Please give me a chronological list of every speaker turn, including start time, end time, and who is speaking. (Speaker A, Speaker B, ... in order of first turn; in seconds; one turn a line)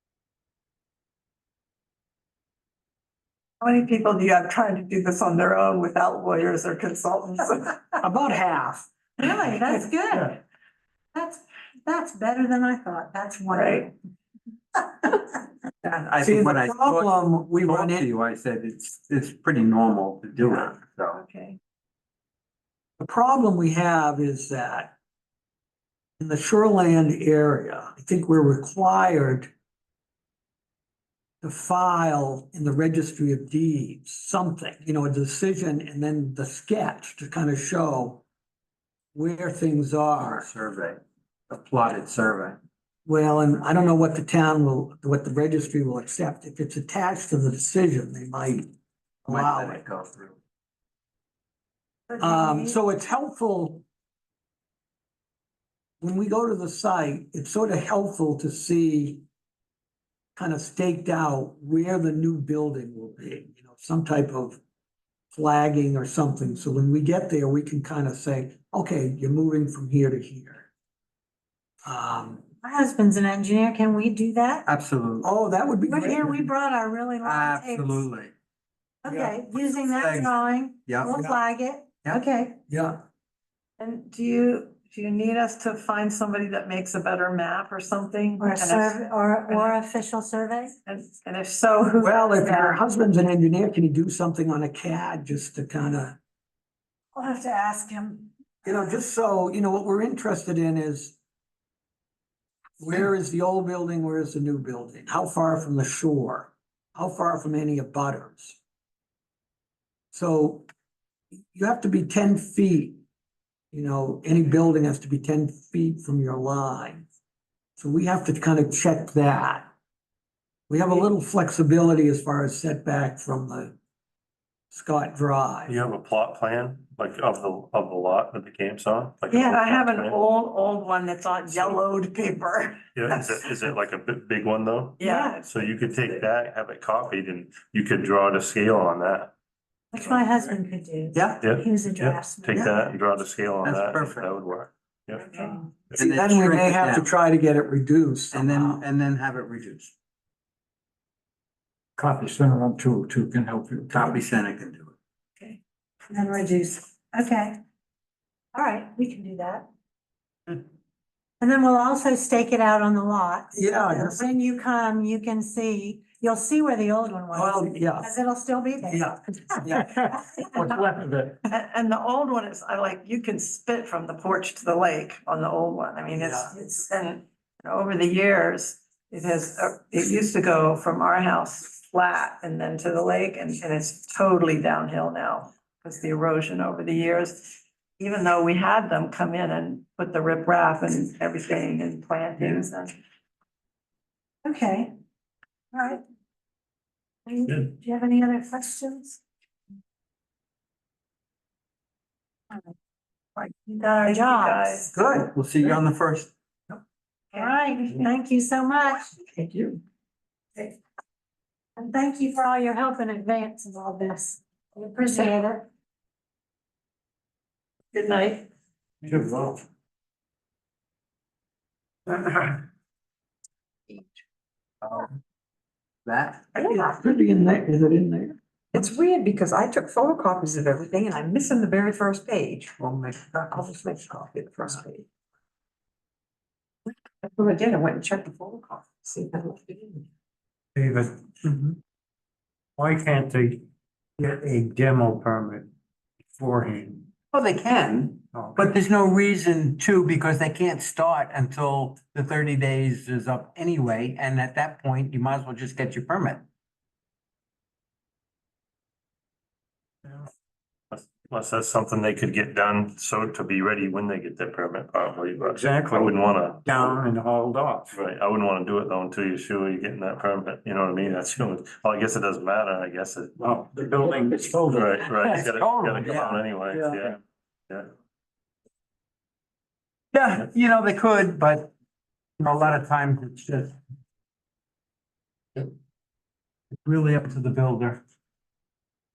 Speaker A: 3.6-8.0
Speaker B: 8.0-8.9
Speaker C: 9.2-10.4
Speaker C: 11.1-14.0
Speaker A: 13.5-13.9
Speaker D: 15.8-21.2
Speaker B: 16.2-18.1
Speaker A: 21.1-21.6
Speaker B: 23.0-24.9
Speaker B: 26.2-29.5
Speaker B: 31.4-38.2
Speaker B: 39.1-40.5
Speaker D: 40.2-42.6
Speaker B: 43.1-48.7
Speaker B: 49.3-49.9
Speaker D: 49.3-50.4
Speaker C: 52.1-52.8
Speaker B: 52.2-53.8
Speaker B: 56.0-59.2
Speaker B: 60.4-64.6
Speaker B: 65.3-70.7
Speaker B: 71.8-72.4
Speaker C: 72.6-74.7
Speaker D: 74.7-75.3
Speaker B: 75.2-76.5
Speaker C: 75.8-78.1
Speaker D: 77.2-78.3
Speaker C: 79.0-82.6
Speaker B: 79.0-79.4
Speaker D: 79.7-80.3
Speaker D: 80.9-81.4
Speaker B: 82.7-83.0
Speaker A: 83.8-89.8
Speaker C: 88.4-90.7
Speaker A: 90.9-92.8
Speaker B: 92.0-96.2
Speaker C: 97.2-98.2
Speaker B: 98.6-101.2
Speaker B: 102.8-108.6
Speaker B: 110.1-110.7
Speaker B: 111.5-113.0
Speaker B: 113.7-117.1
Speaker B: 117.8-119.7
Speaker B: 120.7-123.8
Speaker B: 124.7-125.8
Speaker E: 125.7-130.2
Speaker A: 129.3-133.5
Speaker E: 132.9-139.3
Speaker A: 135.0-136.3
Speaker C: 135.0-135.4
Speaker C: 139.9-142.9
Speaker D: 141.1-141.4
Speaker E: 141.4-145.3
Speaker D: 143.6-144.3
Speaker A: 145.3-145.6
Speaker C: 145.3-145.6
Speaker D: 145.9-147.1
Speaker B: 146.0-148.8
Speaker D: 148.3-149.9
Speaker F: 152.0-154.2
Speaker D: 153.9-154.9
Speaker C: 156.1-157.6
Speaker C: 158.5-159.7
Speaker C: 161.4-170.3
Speaker B: 163.5-164.3
Speaker B: 167.3-168.2
Speaker B: 168.8-169.8
Speaker F: 169.9-171.4
Speaker A: 171.5-192.9
Speaker B: 176.1-176.5
Speaker C: 194.4-194.9
Speaker C: 195.7-196.0
Speaker C: 197.3-199.2
Speaker A: 203.4-204.9
Speaker C: 204.0-204.8
Speaker B: 204.9-205.3
Speaker D: 205.2-206.3
Speaker C: 207.3-209.1
Speaker B: 209.4-209.7
Speaker C: 211.8-215.7
Speaker A: 217.9-218.5
Speaker F: 219.0-219.6
Speaker F: 222.1-222.6
Speaker G: 223.9-224.2
Speaker D: 224.8-225.1
Speaker D: 226.1-226.5
Speaker B: 226.6-228.4
Speaker G: 228.7-235.1
Speaker G: 236.9-240.0
Speaker F: 240.8-241.7
Speaker F: 242.8-243.7
Speaker F: 244.2-245.7
Speaker F: 246.3-247.1
Speaker D: 247.3-256.4
Speaker F: 248.3-248.8
Speaker E: 260.9-267.0
Speaker F: 265.4-268.0
Speaker E: 267.9-273.5
Speaker F: 273.4-275.4
Speaker E: 274.7-277.2
Speaker D: 274.9-277.0
Speaker D: 280.1-281.7
Speaker D: 282.4-283.8
Speaker D: 286.7-288.0